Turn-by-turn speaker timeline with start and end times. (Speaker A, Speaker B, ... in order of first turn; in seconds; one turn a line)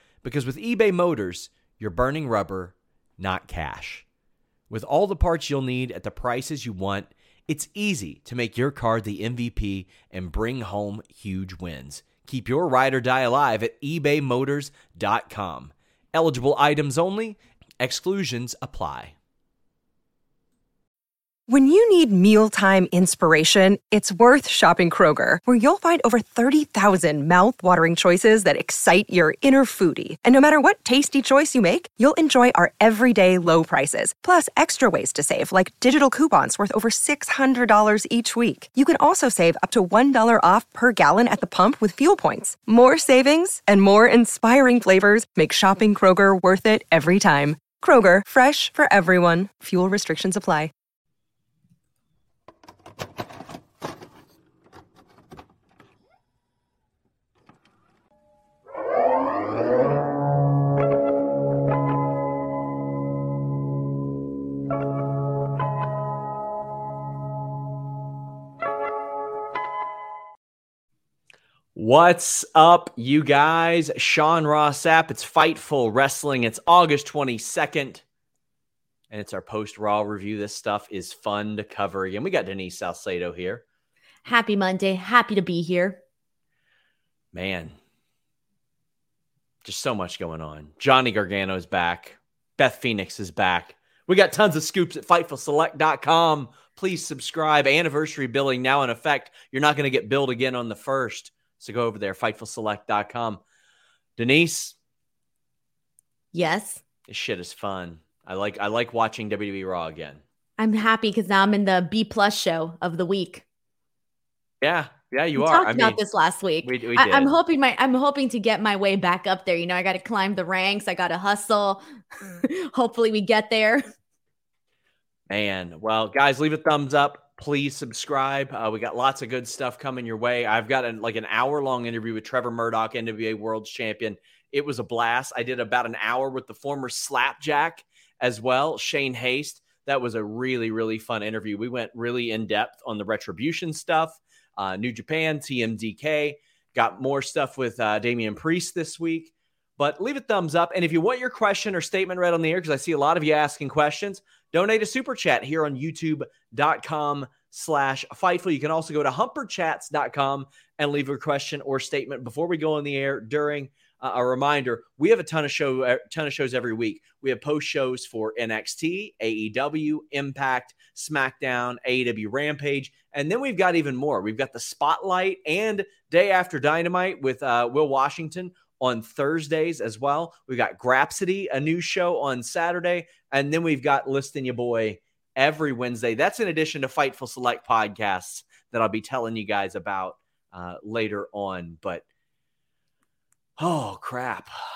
Speaker A: 0.2-4.0
Speaker A: 4.7-19.1
Speaker B: 21.5-50.7
Speaker A: 71.8-78.0
Speaker A: 79.1-83.6
Speaker C: 84.2-86.0
Speaker A: 87.3-87.8
Speaker A: 89.6-103.4
Speaker A: 104.2-104.8
Speaker C: 106.3-106.8
Speaker A: 107.1-110.2
Speaker C: 110.6-113.4
Speaker A: 114.6-116.0
Speaker C: 115.4-123.9
Speaker A: 116.6-117.4
Speaker A: 125.3-192.1
Speaker A: 193.6-194.5